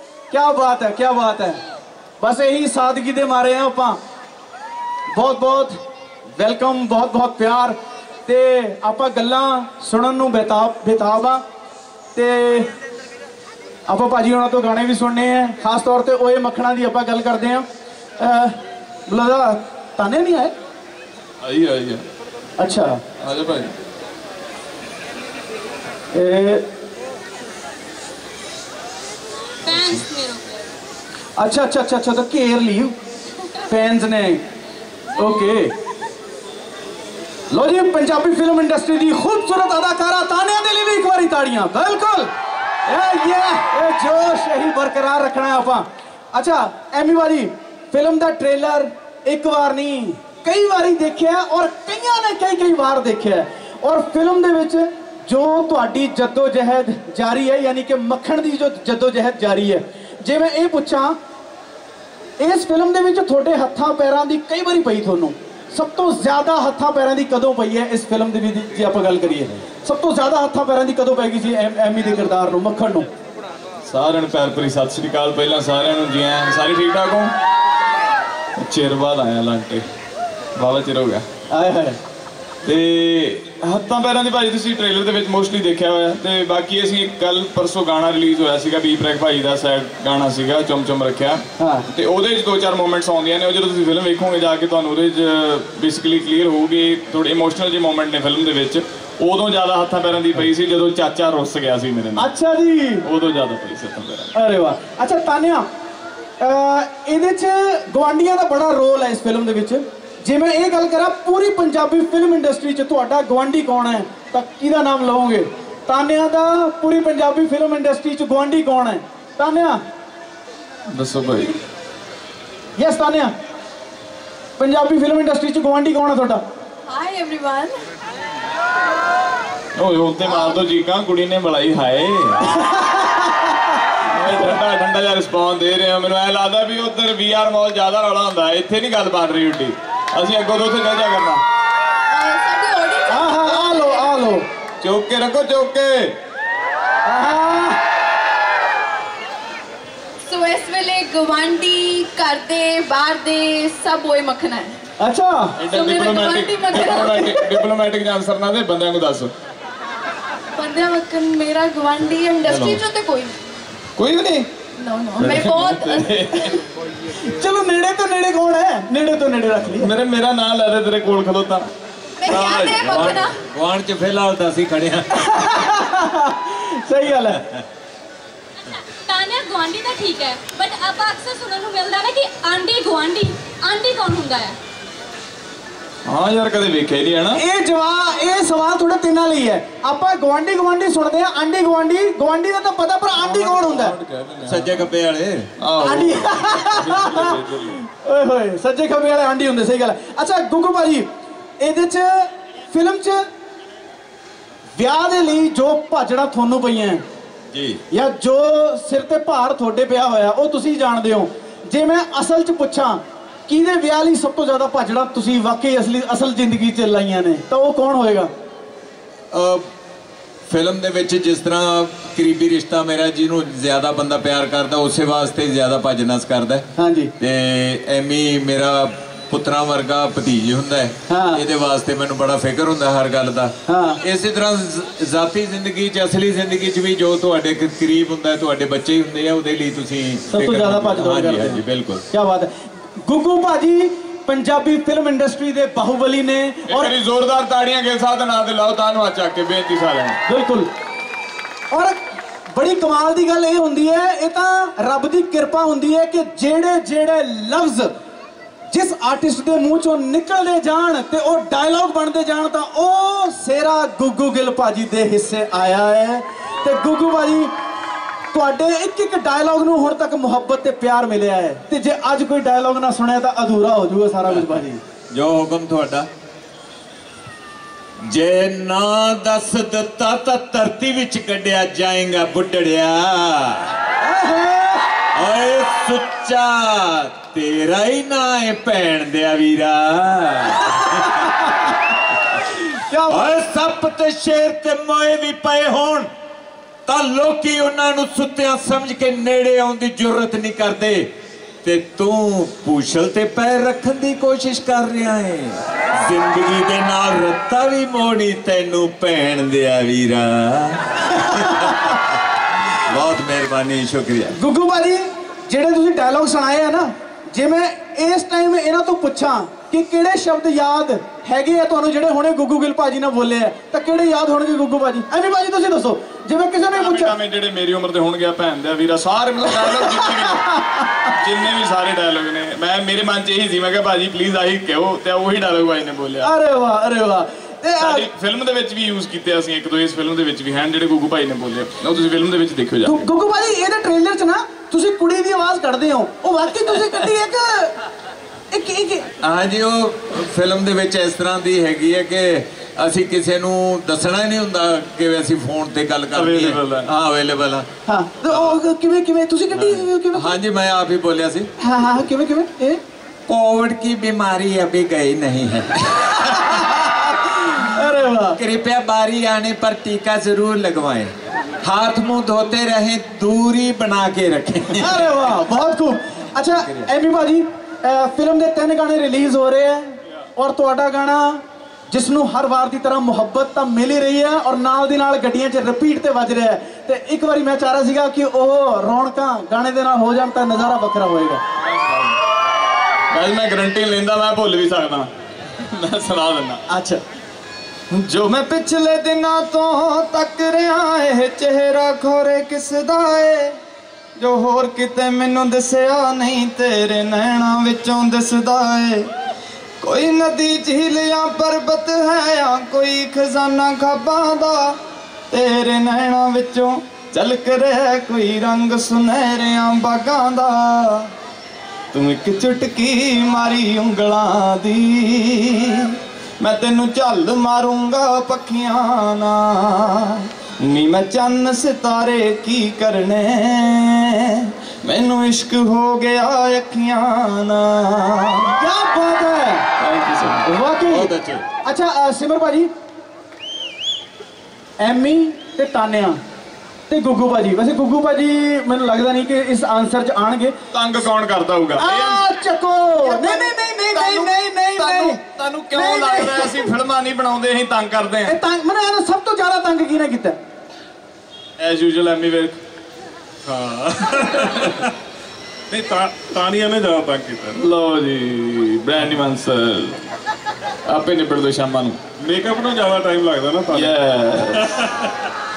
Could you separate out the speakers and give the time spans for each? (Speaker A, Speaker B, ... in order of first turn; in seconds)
Speaker A: 0.3-1.6, 2.2-4.0, 5.1-5.8, 6.4-11.4, 12.1-12.7, 13.9-17.6, 18.2-20.5, 22.6-23.0, 26.1-26.6, 31.4-32.9, 33.6-34.4, 35.2-35.7, 37.5-42.3, 42.9-61.2, 62.4-73.1, 81.5-82.0, 91.6-91.9, 102.2-103.0, 104.3-105.7, 106.4-119.8, 122.8-123.3, 124.6-126.4, 132.6-133.6, 143.1-144.4, 147.1-147.8, 155.0-155.6, 167.2-169.9, 175.3-177.4, 187.3-193.9, 195.8-201.1, 201.6-203.2, 204.8-207.0, 207.9-218.3, 226.8-227.1, 231.1-231.4, 233.7-234.0, 240.3-246.9, 250.3-250.7, 251.7-252.0, 252.5-257.9, 258.7-267.5, 268.3-274.8, 284.0-284.9, 291.2-291.7, 292.7-293.3, 314.3-327.1, 329.6-331.0, 336.2-338.1, 342.8-347.7, 348.5-349.1, 357.9-360.4, 361.6-362.8, 366.5-368.4, 374.8-391.4, 396.7-397.0, 438.6-439.6, 440.4-441.1, 441.6-442.7, 444.8-446.2, 446.9-450.5, 451.8-455.2, 455.7-456.7, 458.2-460.4
Speaker B: 21.4-22.0, 23.2-23.7, 73.8-77.3, 78.6-79.8, 80.5-81.2, 82.7-102.3, 103.0-104.3, 120.9-121.5, 129.8-132.6, 134.0-141.4, 144.8-146.1, 155.6-159.3, 162.4-162.8, 164.0-164.5, 165.2-166.6, 169.8-171.7, 172.2-173.2, 186.1-187.4, 193.2-194.8, 195.6-197.8, 246.7-250.2, 326.7-330.4, 331.1-336.3, 337.8-343.0, 356.1-356.9, 391.6-392.2, 393.1-396.6, 397.9-403.6, 404.2-409.1, 409.8-414.8, 415.3-421.1, 421.9-438.6, 439.8-440.5, 450.7-452.2, 453.0-458.3, 461.6-462.6, 467.5-470.0, 470.8-472.0, 473.7-474.7
Speaker C: 29.6-30.6, 150.7-151.0, 179.1-184.6
Speaker D: 126.9-127.8, 142.1-144.1, 150.3-154.7, 155.7-157.2, 160.6-163.3, 164.8-166.6, 172.2-173.3
Speaker E: 172.8-175.5, 194.4-195.5, 207.5-207.8, 219.3-219.7, 220.5-226.7, 227.2-242.0, 275.1-276.1, 278.0-283.7, 285.1-291.5, 293.1-296.1, 296.9-301.1, 301.6-312.0, 312.7-314.4, 349.2-357.7, 359.5-361.5, 363.3-366.6, 368.4-375.2, 376.5-376.9, 440.9-441.4
Speaker F: 463.4-464.9, 465.7-467.6, 472.2-475.1